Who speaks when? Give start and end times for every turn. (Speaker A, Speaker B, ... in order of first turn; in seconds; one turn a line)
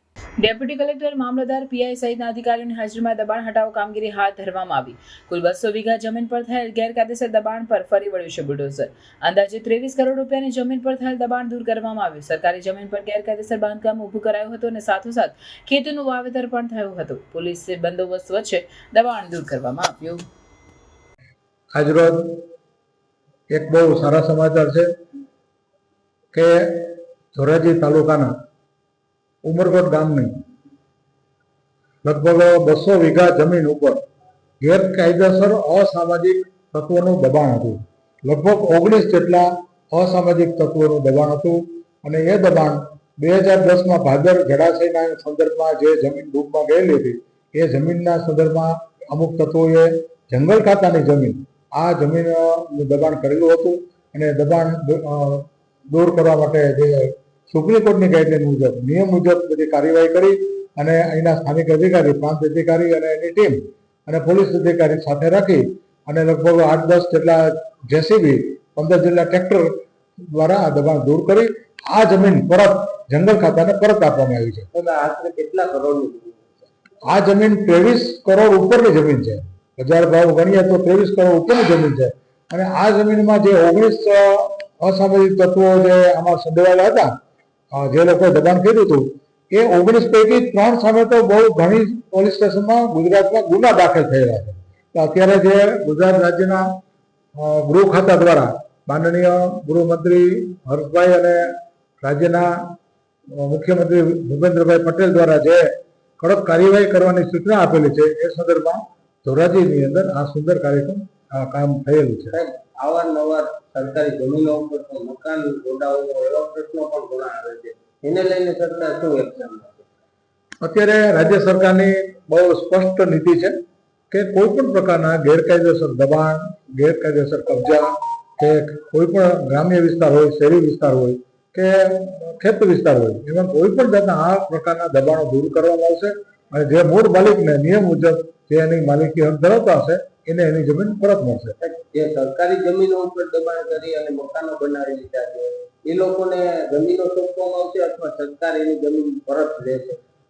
Speaker A: 0.4-20.2
Speaker B: 21.7-22.4
Speaker B: 23.5-24.9
Speaker B: 26.3-28.3
Speaker B: 29.4-30.3
Speaker B: 32.0-34.0
Speaker B: 34.6-74.7
Speaker C: 74.7-76.7
Speaker B: 77.1-87.1
Speaker B: 87.7-96.7
Speaker B: 97.3-102.7
Speaker B: 103.3-105.7
Speaker B: 106.2-112.4
Speaker C: 112.3-119.9
Speaker B: 120.6-123.5
Speaker B: 124.1-141.6
Speaker C: 141.6-150.0